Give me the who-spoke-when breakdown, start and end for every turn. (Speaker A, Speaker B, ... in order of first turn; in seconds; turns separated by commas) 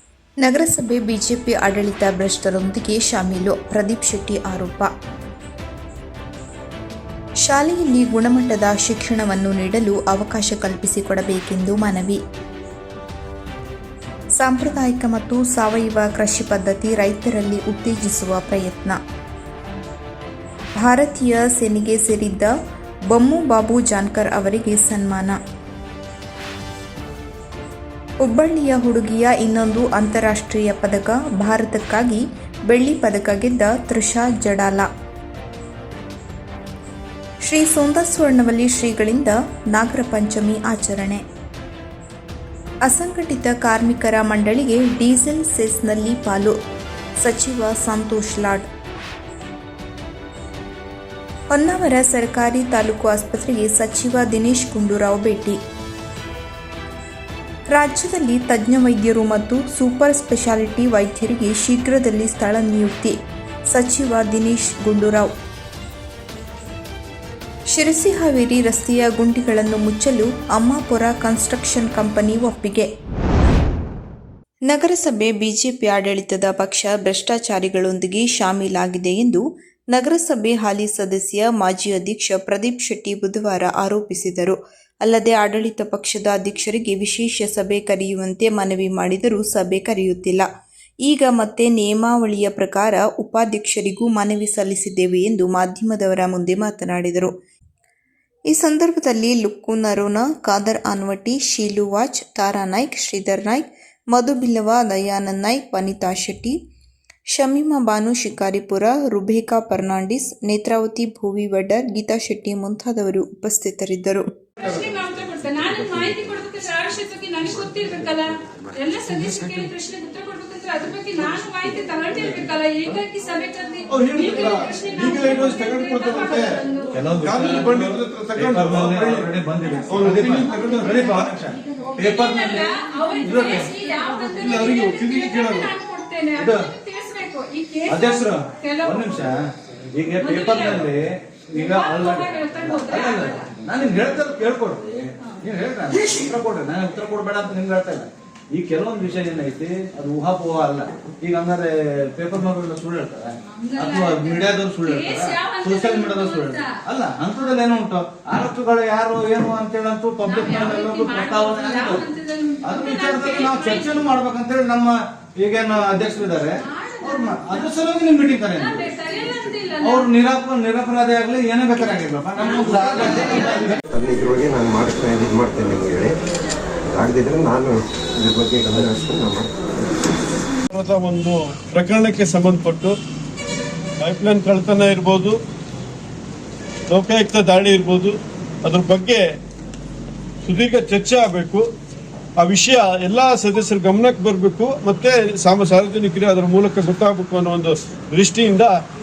Speaker A: 0.4-4.9, Speaker A: 7.4-12.2, Speaker A: 14.4-19.0, Speaker A: 20.8-22.5, Speaker A: 23.1-25.4, Speaker A: 28.2-34.9, Speaker A: 37.4-41.2, Speaker A: 42.9-46.6, Speaker A: 47.2-48.7, Speaker A: 51.5-55.6, Speaker A: 57.7-65.3, Speaker A: 67.7-72.9, Speaker A: 74.7-90.5, Speaker A: 91.0-97.3, Speaker A: 98.5-106.6, Speaker A: 107.3-114.3, Speaker B: 114.6-126.9, Speaker C: 123.9-133.7, Speaker D: 125.1-125.7, Speaker D: 127.2-129.3, Speaker D: 129.9-131.2, Speaker B: 132.0-139.3, Speaker C: 134.4-135.7, Speaker C: 136.4-136.7, Speaker C: 137.9-162.1, Speaker B: 140.1-140.9, Speaker B: 141.5-143.5, Speaker B: 153.6-156.8, Speaker B: 160.2-164.0, Speaker C: 162.6-168.9, Speaker B: 166.7-167.7, Speaker B: 168.6-170.1, Speaker C: 169.8-173.8, Speaker B: 172.4-173.8, Speaker E: 173.9-176.2, Speaker E: 176.9-179.7, Speaker D: 180.7-182.9, Speaker D: 184.0-185.4, Speaker D: 186.9-189.3, Speaker D: 190.4-191.7, Speaker D: 192.4-198.8